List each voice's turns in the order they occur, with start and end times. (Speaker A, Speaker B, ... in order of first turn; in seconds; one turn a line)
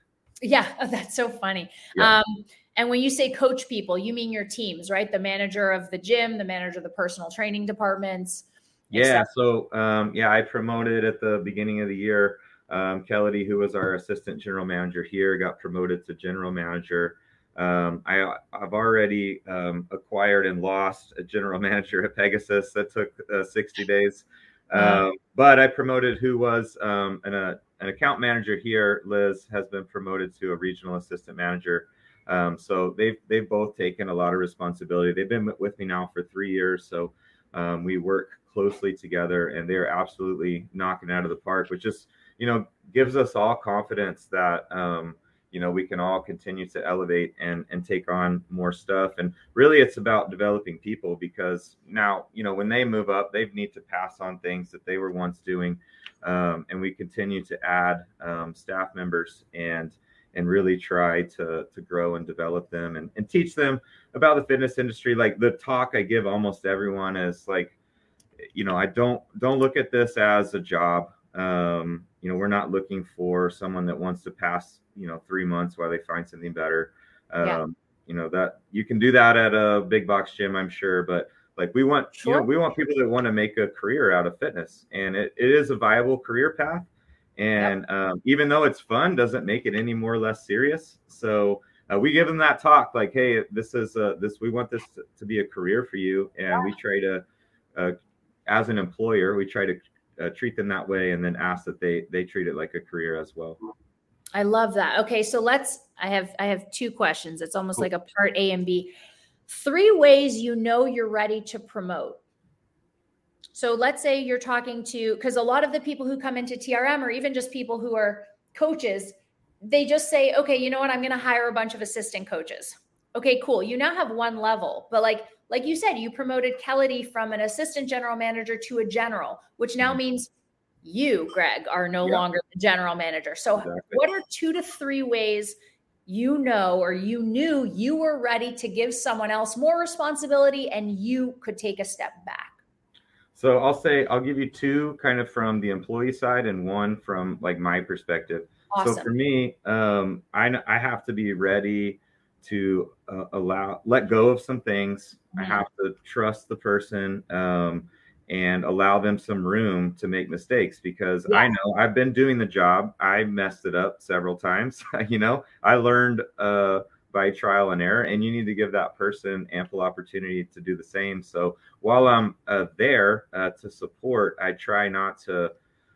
Speaker A: 0.4-9.3
Speaker B: 8.9-67.7
Speaker A: 24.7-25.0
Speaker B: 68.5-97.2
Speaker A: 82.2-82.5
Speaker B: 98.5-103.6
Speaker A: 104.3-108.9
Speaker A: 109.5-112.2
Speaker A: 113.5-130.3
Speaker A: 130.8-135.5
Speaker B: 133.6-134.0
Speaker A: 136.1-142.6
Speaker B: 143.3-175.5
Speaker A: 148.7-149.1
Speaker A: 155.3-155.6